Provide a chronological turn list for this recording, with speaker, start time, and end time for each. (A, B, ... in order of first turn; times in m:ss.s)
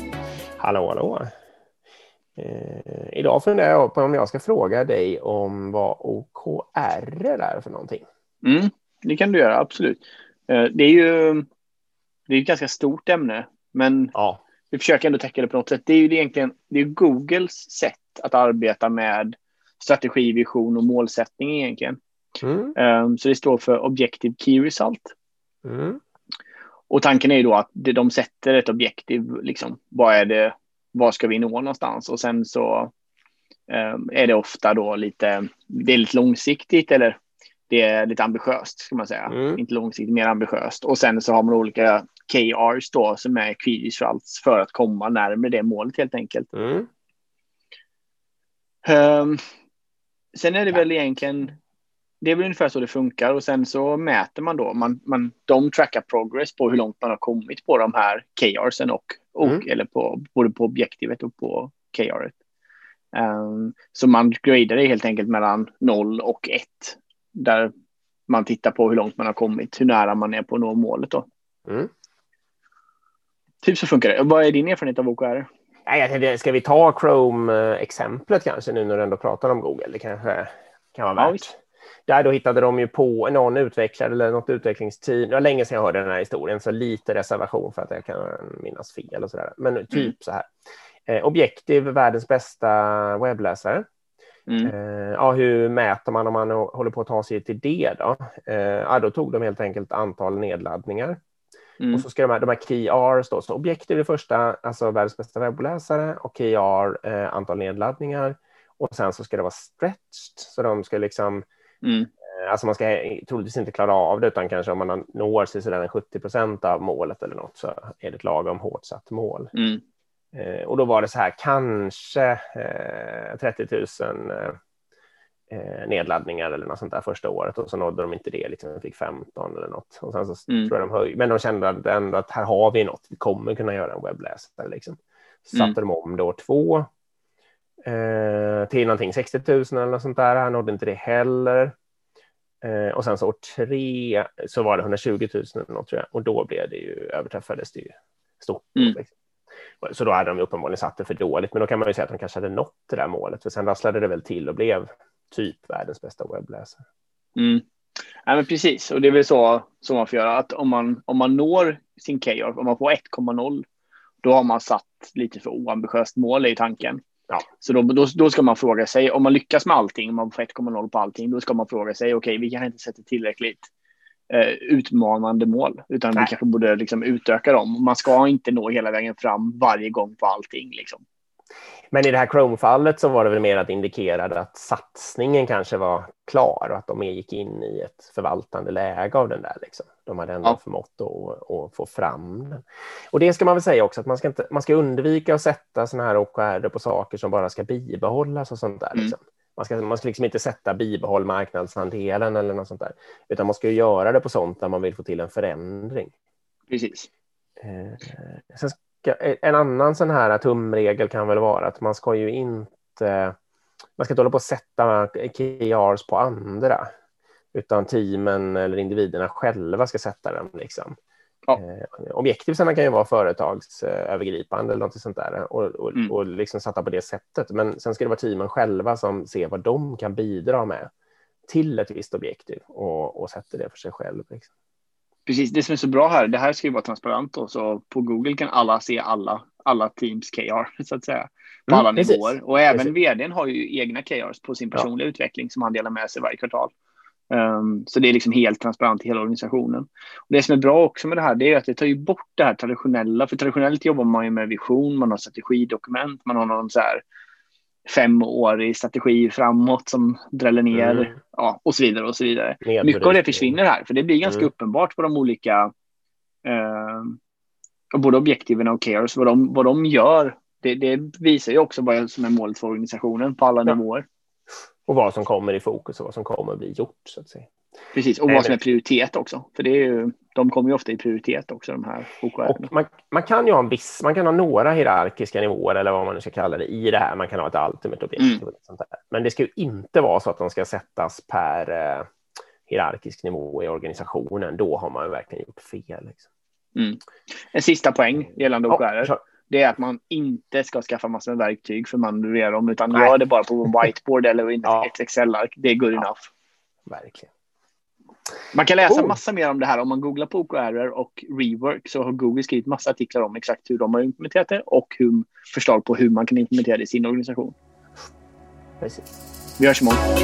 0:00.6-0:01.3 A
0:02.4-0:08.0 A
0:08.4-0:11.5 B
0:12.3-0:14.1 B
0:14.2-0:14.4 A
0:14.7-0:22.0 B
0:22.4-0:22.8 A
0:22.8-0:25.1 B
0:25.6-0:26.0 A
0:26.9-0:32.9 B
0:33.7-0:37.2 B
0:37.7-0:46.5 B
0:39.3-0:39.6 A
0:46.5-0:46.9 A
0:48.8-0:49.4 B
0:50.3-0:51.5 B
0:52.2-1:02.4 B
1:03.1-1:07.7 B
1:08.3-1:11.3 B
1:11.7-1:11.9 A
1:13.6-1:15.5 B
1:15.9-1:30.5 A
1:21.2-1:21.4 B
1:31.1-1:33.8 A
1:34.5-1:34.7 B
1:34.6-1:41.2 A
1:41.8-1:42.1 B
1:41.9-1:51.4 A
1:51.8-1:52.1 B
1:52.3-1:59.5 A
1:59.5-1:59.8 B
2:00.3-2:04.6 A
2:05.5-2:16.9 A
2:17.9-2:21.8 A
2:22.6-2:29.1 A
2:29.8-2:36.8 A
2:37.4-2:37.6 B
2:38.2-2:43.6 B
2:44.2-2:47.0 B
2:47.6-2:53.7 B
2:54.3-3:01.0 B
3:01.9-3:26.1 A
3:26.7-3:27.1 B
3:27.6-3:33.4 A
3:34.0-3:36.9 A
3:37.5-3:41.0 A
3:41.6-3:50.9 A
3:51.5-3:54.5 A
3:55.3-4:06.7 B
4:01.7-4:02.9 A
4:07.3-4:17.0 B
4:17.9-4:25.7 B
4:20.7-4:21.1 A
4:22.6-4:23.6 A
4:24.2-4:24.5 A
4:26.4-4:27.2 B
4:27.9-4:34.1 B
4:34.9-4:37.5 A
4:37.9-4:42.7 B
4:38.3-4:38.6 A
4:42.5-4:52.1 A
4:48.2-4:48.4 B
4:52.7-4:56.3 A
4:56.8-4:57.0 B
4:57.5-5:06.3 B
4:58.7-4:59.2 A
5:04.6-5:04.9 A
5:06.9-5:07.3 A
5:08.5-5:17.6 B
5:08.9-5:09.2 A
5:18.8-5:19.1 A
5:19.6-5:20.0 B